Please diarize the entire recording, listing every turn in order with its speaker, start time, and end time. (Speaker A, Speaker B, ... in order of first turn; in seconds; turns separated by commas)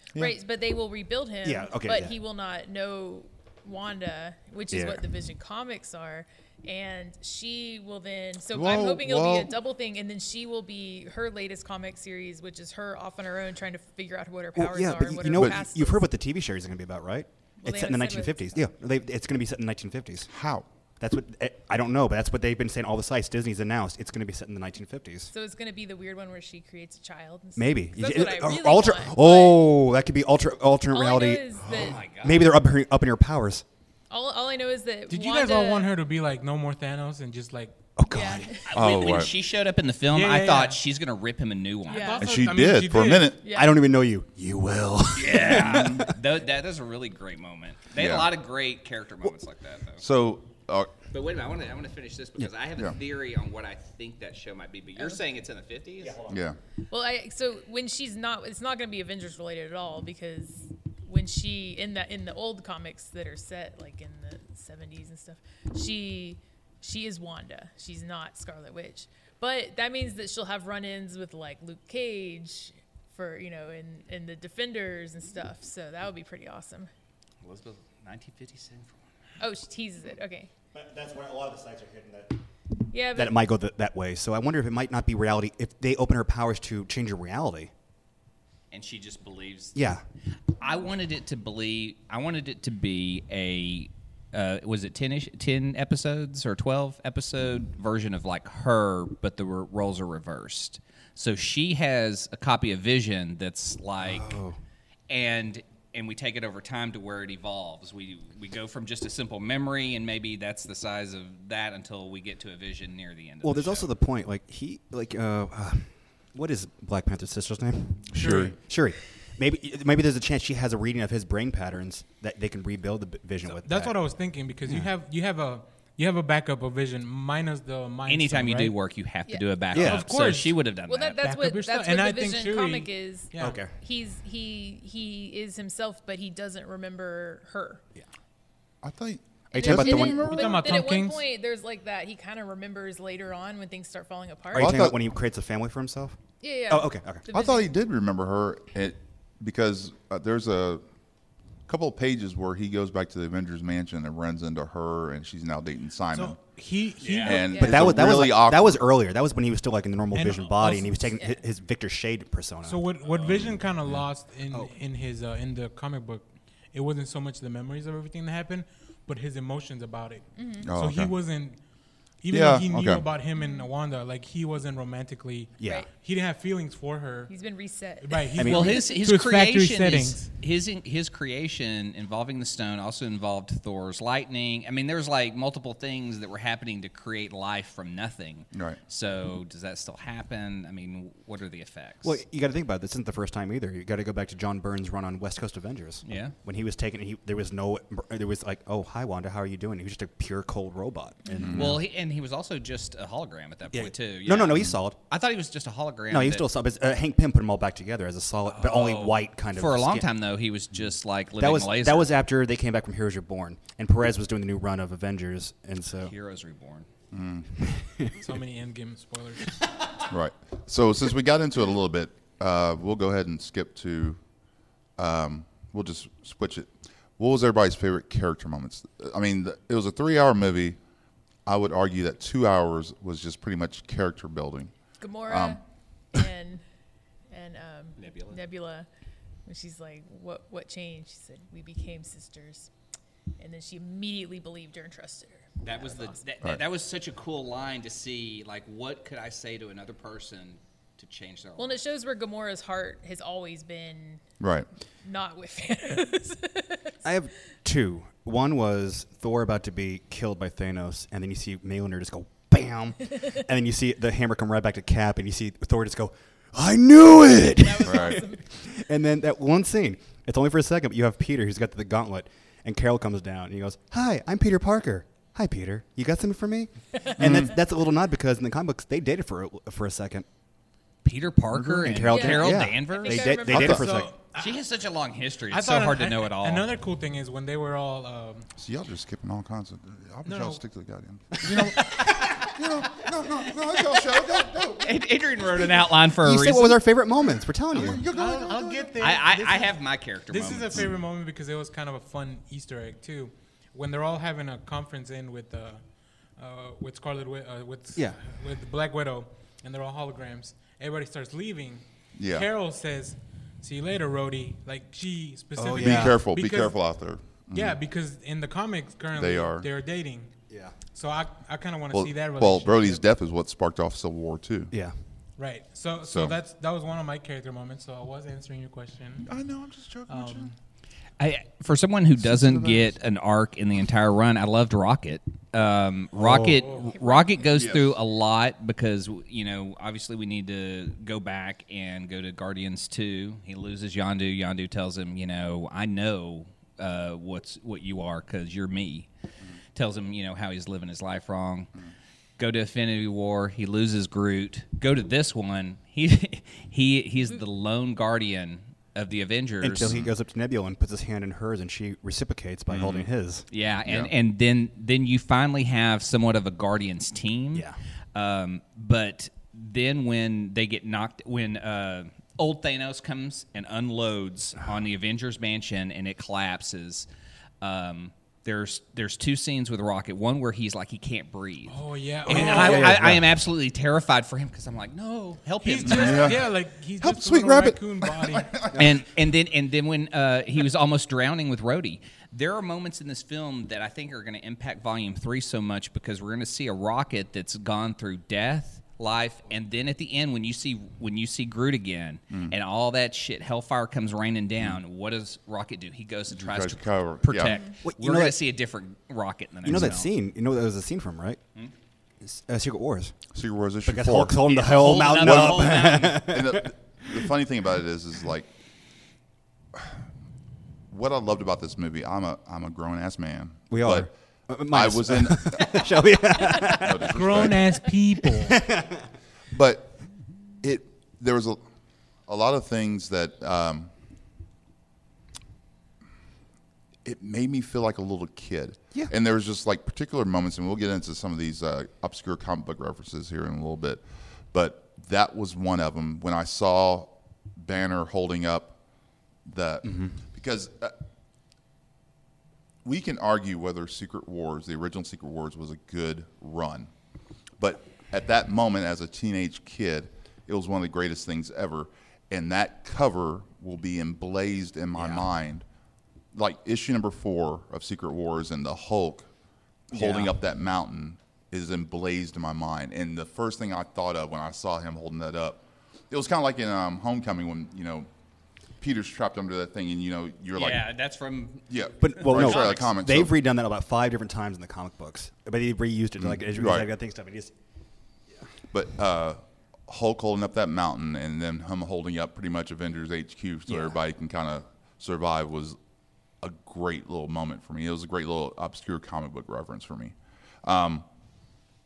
Speaker A: 0.1-16.1, Speaker B: 1.4-2.1, Speaker B: 4.7-5.0, Speaker C: 8.5-9.5, Speaker B: 14.6-20.3, Speaker A: 17.6-18.7, Speaker C: 20.3-20.7, Speaker B: 21.0-25.3, Speaker A: 25.3-29.7, Speaker B: 27.6-33.6, Speaker A: 30.9-32.0, Speaker D: 31.7-32.6, Speaker A: 34.1-35.9, Speaker E: 35.1-37.8, Speaker B: 38.0-38.6, Speaker A: 38.1-38.7, Speaker D: 38.7-42.2, Speaker C: 38.7-39.3, Speaker E: 40.1-40.8, Speaker A: 41.9-42.3, Speaker E: 41.9-43.3, Speaker C: 42.2-43.4, Speaker A: 43.4-43.8, Speaker B: 43.5-46.2, Speaker D: 45.1-50.0, Speaker C: 45.5-46.1, Speaker C: 48.0-48.3, Speaker C: 50.0-50.9, Speaker D: 51.1-56.2, Speaker B: 56.0-56.5, Speaker C: 56.3-56.6, Speaker A: 56.9-76.9, Speaker D: 77.4-79.1, Speaker A: 79.4-80.5, Speaker B: 80.7-82.4, Speaker A: 82.9-83.4, Speaker B: 83.1-87.7, Speaker D: 88.7-89.8, Speaker B: 89.8-90.0, Speaker D: 90.6-104.4, Speaker B: 104.0-104.6, Speaker D: 105.1-113.9, Speaker B: 113.4-124.0, Speaker C: 118.1-118.5, Speaker E: 118.1-118.5, Speaker E: 123.5-128.8, Speaker D: 128.1-131.2, Speaker B: 129.7-130.1, Speaker E: 129.7-130.6, Speaker A: 130.9-137.8, Speaker E: 131.2-133.6, Speaker B: 133.4-133.7, Speaker C: 138.8-140.7, Speaker A: 139.5-144.8, Speaker B: 139.6-140.3, Speaker E: 140.2-141.2, Speaker C: 144.5-145.0, Speaker B: 144.5-146.2, Speaker A: 146.4-147.7, Speaker B: 146.7-147.3, Speaker C: 147.3-150.8, Speaker C: 151.7-156.4, Speaker E: 156.1-157.6, Speaker D: 157.0-157.4, Speaker C: 157.2-158.8, Speaker A: 157.2-158.0, Speaker B: 157.6-162.8, Speaker E: 160.1-161.1, Speaker E: 162.7-171.6, Speaker A: 170.4-170.7, Speaker C: 170.7-171.1, Speaker E: 172.2-177.3, Speaker C: 172.3-173.1, Speaker A: 173.4-173.7, Speaker B: 175.6-175.8, Speaker A: 177.3-178.6, Speaker E: 178.0-180.3, Speaker B: 178.4-178.8, Speaker D: 178.4-192.2, Speaker C: 188.5-188.8, Speaker B: 192.0-201.9, Speaker D: 196.1-196.3, Speaker D: 201.4-206.5, Speaker C: 201.4-201.8, Speaker B: 203.7-205.0, Speaker B: 206.1-210.1, Speaker D: 208.5-212.1, Speaker B: 211.4-216.1, Speaker D: 216.0-216.9, Speaker C: 217.1-217.5, Speaker B: 217.6-218.1, Speaker E: 218.2-219.6, Speaker C: 220.1-224.2, Speaker C: 225.0-230.8, Speaker C: 231.5-234.7, Speaker A: 235.0-235.6, Speaker C: 235.3-235.6, Speaker A: 236.1-236.6, Speaker A: 237.3-238.9, Speaker D: 238.0-238.4, Speaker A: 239.5-242.7, Speaker A: 243.4-246.2, Speaker D: 245.6-251.8, Speaker A: 251.6-254.2, Speaker C: 254.4-254.7, Speaker A: 255.0-256.9, Speaker B: 257.0-280.3, Speaker A: 267.5-268.4, Speaker C: 267.8-268.2, Speaker C: 277.2-277.6, Speaker D: 281.0-283.4, Speaker B: 281.6-284.1, Speaker C: 281.8-282.1, Speaker A: 282.1-283.8, Speaker C: 283.5-283.8, Speaker E: 283.6-284.6, Speaker D: 284.4-286.7, Speaker E: 285.5-288.5, Speaker C: 288.6-294.9, Speaker E: 290.2-290.6, Speaker B: 291.5-291.8, Speaker D: 291.6-292.5, Speaker D: 294.8-296.8, Speaker B: 296.2-298.0, Speaker C: 297.7-298.9, Speaker E: 298.0-305.8, Speaker D: 299.0-300.9, Speaker E: 306.4-316.8, Speaker C: 312.2-312.5, Speaker B: 315.6-316.2, Speaker C: 315.8-317.8, Speaker E: 317.5-320.3, Speaker C: 319.1-319.7, Speaker E: 320.9-323.1, Speaker C: 321.9-324.7, Speaker E: 325.4-329.3, Speaker C: 326.1-326.4, Speaker C: 329.2-330.5, Speaker E: 330.1-330.5, Speaker D: 331.2-349.1, Speaker C: 332.2-332.9, Speaker B: 336.1-336.7, Speaker A: 336.9-337.5, Speaker C: 337.5-337.9, Speaker D: 349.8-351.7, Speaker D: 352.4-360.0, Speaker B: 359.6-363.5, Speaker C: 359.9-360.1, Speaker C: 362.7-363.1, Speaker D: 363.5-377.1, Speaker C: 363.9-364.1, Speaker D: 377.6-386.4, Speaker E: 381.7-383.1, Speaker B: 382.3-383.3, Speaker E: 385.6-388.6, Speaker C: 385.8-388.8, Speaker D: 388.8-410.1, Speaker C: 406.3-407.6, Speaker B: 407.9-408.4, Speaker B: 409.6-411.4, Speaker B: 412.2-413.2, Speaker C: 413.3-418.5, Speaker B: 413.9-417.3, Speaker D: 414.4-416.3, Speaker C: 420.9-424.1, Speaker B: 423.7-427.5, Speaker C: 424.7-425.9, Speaker C: 426.6-427.8, Speaker E: 427.1-428.6, Speaker B: 428.2-429.1, Speaker C: 429.5-429.9, Speaker C: 430.6-431.6, Speaker C: 432.3-433.9, Speaker C: 437.0-448.8, Speaker C: 449.4-450.9, Speaker B: 449.8-450.1, Speaker C: 452.8-456.9, Speaker C: 457.6-465.6, Speaker B: 464.9-465.3, Speaker C: 466.3-469.3, Speaker C: 469.9-478.1, Speaker B: 469.9-470.4, Speaker C: 478.8-480.9, Speaker D: 480.6-482.9, Speaker C: 481.7-483.3, Speaker B: 482.0-487.5, Speaker C: 486.2-486.9, Speaker C: 488.7-495.8, Speaker B: 493.7-494.0, Speaker C: 496.4-501.1